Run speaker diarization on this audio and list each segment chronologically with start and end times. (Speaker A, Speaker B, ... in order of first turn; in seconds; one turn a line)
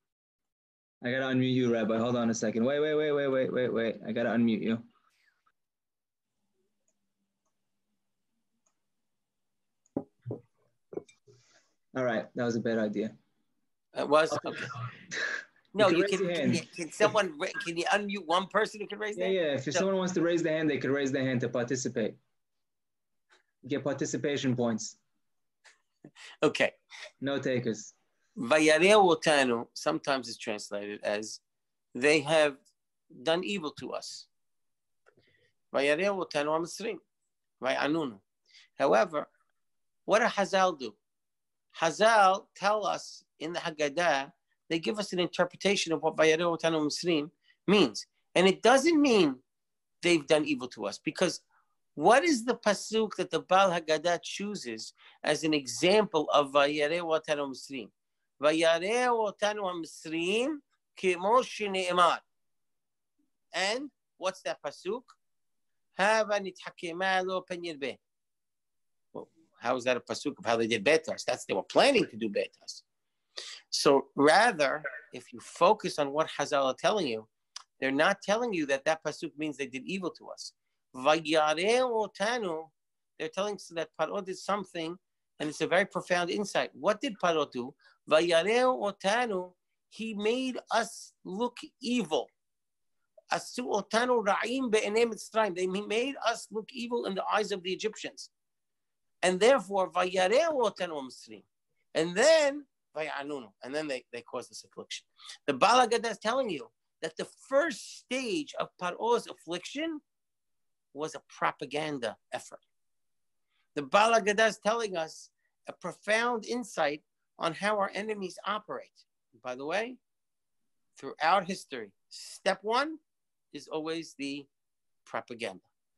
Speaker A: 1.0-4.8
Speaker A: 11.9-13.1
Speaker B: 13.9-14.7
Speaker A: 15.1-17.1
Speaker B: 15.7-19.8
Speaker A: 19.1-22.2
Speaker A: 23.6-25.0
Speaker B: 26.4-26.7
Speaker A: 27.2-27.9
Speaker B: 28.4-31.4
Speaker B: 31.9-32.6
Speaker B: 33.1-34.3
Speaker B: 35.7-37.0
Speaker B: 37.6-38.2
Speaker B: 38.8-39.3
Speaker B: 40.1-41.0
Speaker B: 41.7-49.4
Speaker B: 50.0-51.4
Speaker B: 52.0-62.2
Speaker B: 63.5-65.1
Speaker B: 66.0-68.0
Speaker B: 69.1-72.8
Speaker B: 73.7-77.3
Speaker B: 77.8-92.3
Speaker B: 93.3-98.3
Speaker B: 99.2-101.4
Speaker B: 101.9-110.0
Speaker B: 110.9-112.6
Speaker B: 113.7-120.0
Speaker B: 121.0-123.0
Speaker B: 123.5-124.5
Speaker B: 125.0-125.6